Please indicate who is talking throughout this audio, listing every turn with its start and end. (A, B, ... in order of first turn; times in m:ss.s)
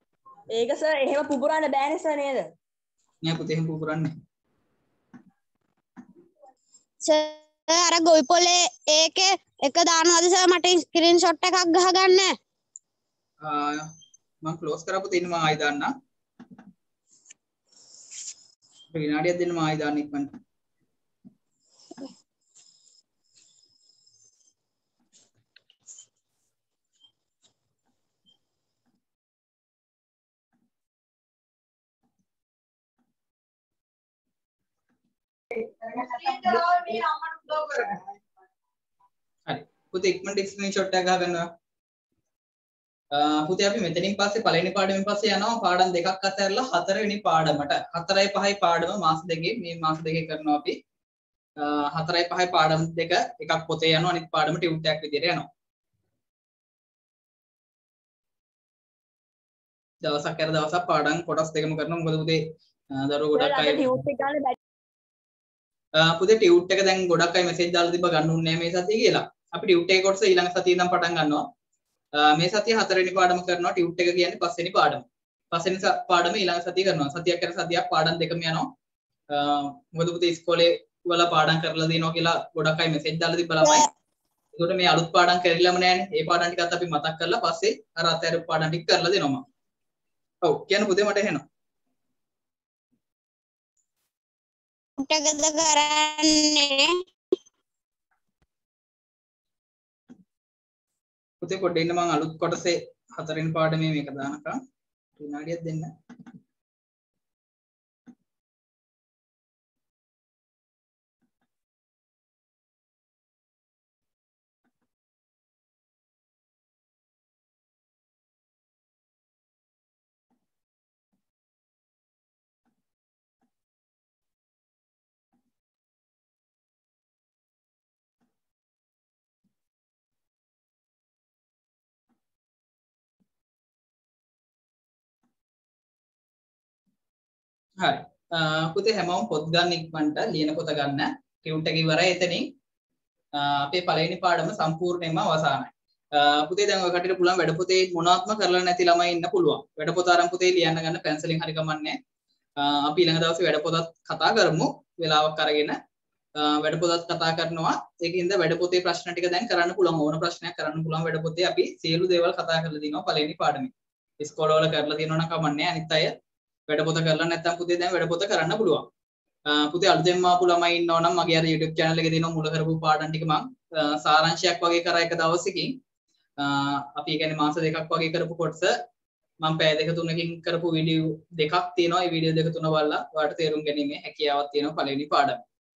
0:00.5-0:02.5 A
0:03.2-0:04.1 B
0:07.0-0:12.3 C
0:13.4-0:13.9 B
0:14.4-0:15.9 B
0:18.9-0:20.3 B
0:39.5-0:41.4 B
0:43.1-0:50.8 B
0:51.6-0:55.5 B
1:00.0-1:02.4 B
1:03.0-1:03.8 B
1:03.4-1:04.6 A
1:06.0-1:11.4 B
1:12.2-1:18.7 B
1:19.3-1:23.9 B
1:24.6-1:29.4 B
1:30.4-1:31.4 B
1:35.0-1:37.0 C
1:41.4-1:44.6 B
1:45.2-1:45.9 B
2:17.8-2:22.5 B
2:23.4-2:32.0 B
2:32.6-2:35.8 B
2:36.4-2:46.1 B
2:46.7-2:48.8 B
2:49.5-2:55.8 B
2:56.4-2:58.7 B
2:59.4-3:05.4 B